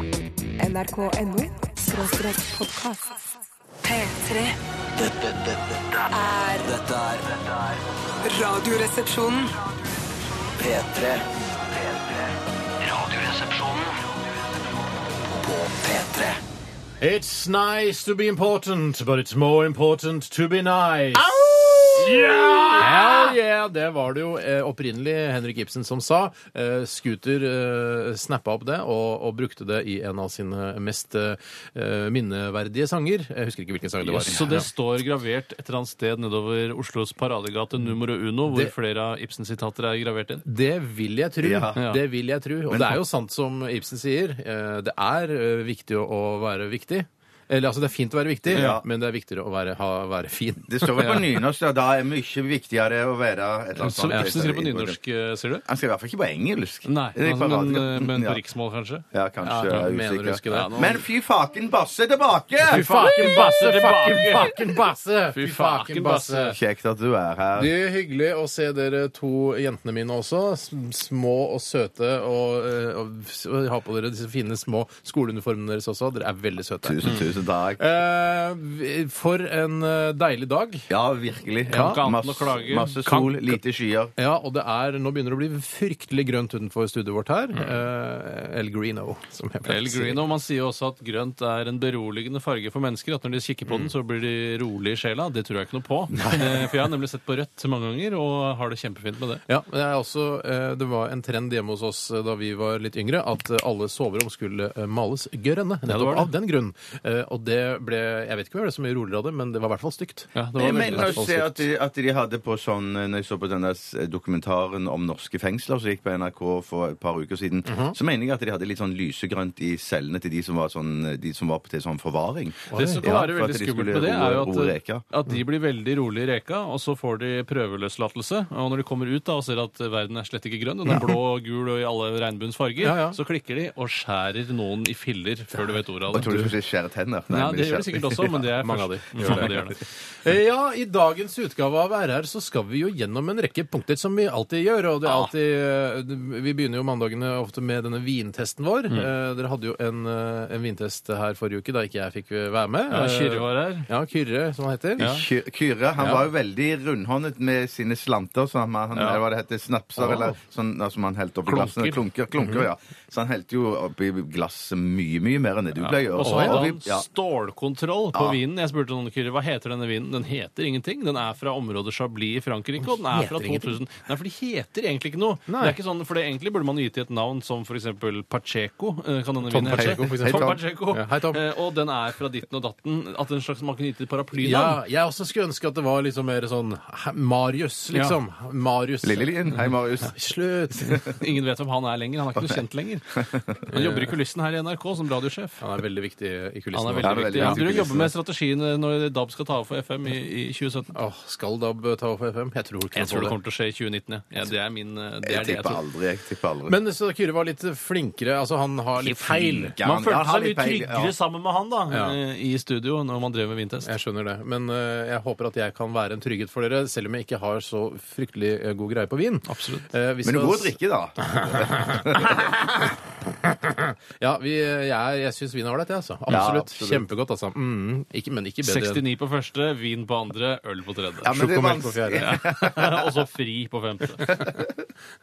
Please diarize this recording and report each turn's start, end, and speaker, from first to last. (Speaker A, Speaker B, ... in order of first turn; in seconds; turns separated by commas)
Speaker A: 0.6-3.1, Speaker A: 3.8-4.6, Speaker B: 5.0-6.1, Speaker A: 6.1-6.7, Speaker B: 6.6-7.8, Speaker A: 8.2-9.5, Speaker B: 10.6-14.0, Speaker B: 15.1-16.4, Speaker C: 17.0-34.7, Speaker D: 22.0-23.1, Speaker D: 34.0-40.4, Speaker E: 34.3-34.6, Speaker C: 40.4-51.1, Speaker E: 41.4-41.8, Speaker E: 42.7-43.0, Speaker E: 48.5-48.9, Speaker D: 48.5-48.8, Speaker E: 50.7-55.0, Speaker D: 53.8-55.6, Speaker E: 55.6-58.4, Speaker D: 56.8-59.0, Speaker E: 59.1-62.8, Speaker C: 59.4-60.9, Speaker D: 60.5-61.0, Speaker D: 62.6-64.8, Speaker C: 62.6-66.6, Speaker D: 65.3-66.6, Speaker E: 66.5-67.7, Speaker C: 67.5-77.2, Speaker E: 76.8-77.8, Speaker C: 77.8-80.9, Speaker E: 80.9-84.1, Speaker C: 81.7-82.0, Speaker D: 81.7-83.6, Speaker C: 84.2-90.2, Speaker D: 89.7-99.4, Speaker E: 96.1-96.7, Speaker C: 99.5-111.6, Speaker D: 105.8-106.3, Speaker D: 110.3-111.2, Speaker E: 110.5-125.0, Speaker C: 117.7-117.9, Speaker C: 122.7-123.2, Speaker D: 122.7-136.5, Speaker C: 132.8-133.2, Speaker E: 136.1-138.4, Speaker D: 137.3-139.8, Speaker C: 138.6-139.7, Speaker E: 139.2-139.5, Speaker C: 140.2-155.2, Speaker D: 152.9-153.9, Speaker E: 155.0-167.1, Speaker D: 155.0-155.3, Speaker C: 156.0-156.2, Speaker D: 158.9-159.2, Speaker C: 160.0-160.4, Speaker D: 161.4-162.0, Speaker D: 165.8-184.8, Speaker C: 166.2-166.7, Speaker E: 168.1-168.4, Speaker C: 172.8-173.8, Speaker C: 175.5-175.8, Speaker C: 179.4-181.4, Speaker E: 179.8-180.6, Speaker C: 184.4-189.4, Speaker D: 187.9-188.2, Speaker E: 189.0-190.1, Speaker C: 190.0-191.1, Speaker D: 191.0-193.1, Speaker E: 192.3-192.6, Speaker E: 193.2-193.8, Speaker D: 193.7-195.6, Speaker C: 193.7-194.1, Speaker C: 195.6-198.0, Speaker D: 196.7-200.9, Speaker E: 197.0-198.1, Speaker C: 200.9-203.3, Speaker D: 202.9-205.8, Speaker E: 205.2-206.8, Speaker C: 206.7-209.7, Speaker E: 209.0-211.1, Speaker D: 209.8-213.9, Speaker C: 211.9-212.2, Speaker C: 213.8-220.7, Speaker D: 219.4-219.8, Speaker E: 220.2-222.5, Speaker C: 221.4-222.5, Speaker C: 223.3-229.0, Speaker E: 226.3-227.0, Speaker D: 228.6-231.3, Speaker E: 231.2-233.1, Speaker C: 231.2-232.3, Speaker D: 232.2-234.4, Speaker E: 234.2-234.7